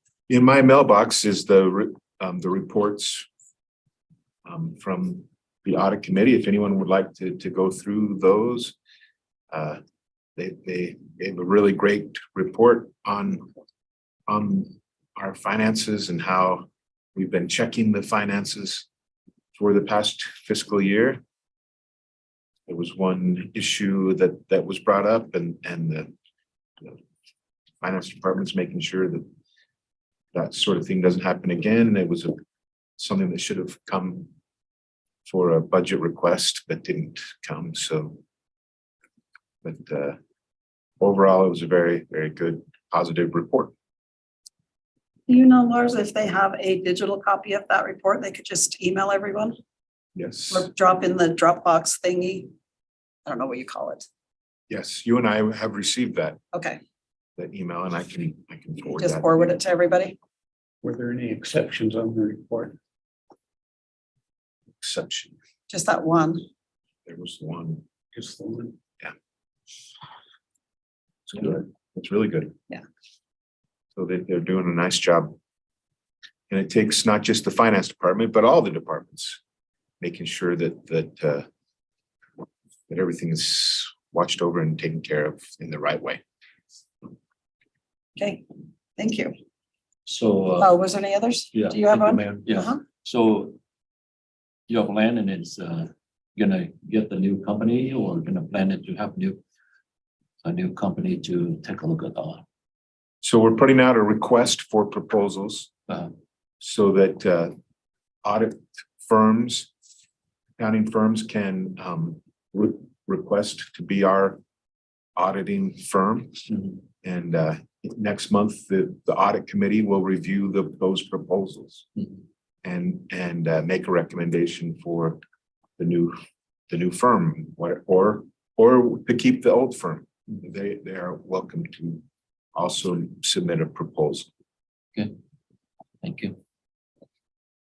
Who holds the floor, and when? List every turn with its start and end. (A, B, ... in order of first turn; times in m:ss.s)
0:00.3-0:03.3 A
0:04.4-0:08.8 A
0:09.5-0:09.8 A
0:10.4-0:13.5 A
0:14.3-0:18.9 A
0:19.6-0:21.2 A
0:22.7-0:26.1 A
0:27.8-0:29.3 A
0:30.3-0:32.4 A
0:33.0-0:34.3 A
0:35.3-0:38.2 A
0:39.6-0:40.2 A
0:41.0-0:43.7 A
0:45.3-0:49.6 B
0:50.2-0:50.7 A
0:50.5-0:52.5 B
0:53.3-0:54.1 B
0:54.7-0:56.4 A
0:56.5-0:56.8 B
0:57.4-0:59.6 A
0:59.0-1:00.2 B
1:00.8-1:02.8 C
1:04.8-1:05.4 A
1:05.7-1:06.4 B
1:07.1-1:07.8 A
1:08.1-1:08.8 C
1:11.3-1:12.5 A
1:14.0-1:15.4 A
1:16.5-1:19.4 A
1:20.0-1:21.5 A
1:22.9-1:26.2 A
1:28.2-1:28.4 B
1:29.0-1:29.3 B
1:30.1-1:30.8 D
1:30.6-1:32.8 B
1:31.5-1:33.6 D
1:34.7-1:39.4 D
1:40.4-1:42.4 D
1:43.2-1:45.7 A
1:46.6-1:47.6 A
1:48.2-1:49.7 A
1:50.6-1:54.4 A
1:55.2-1:56.4 A
1:57.0-2:01.9 A
2:02.6-2:05.2 A
2:05.8-2:06.2 A
2:06.7-2:12.0 A
2:12.6-2:14.3 A
2:16.0-2:16.4 D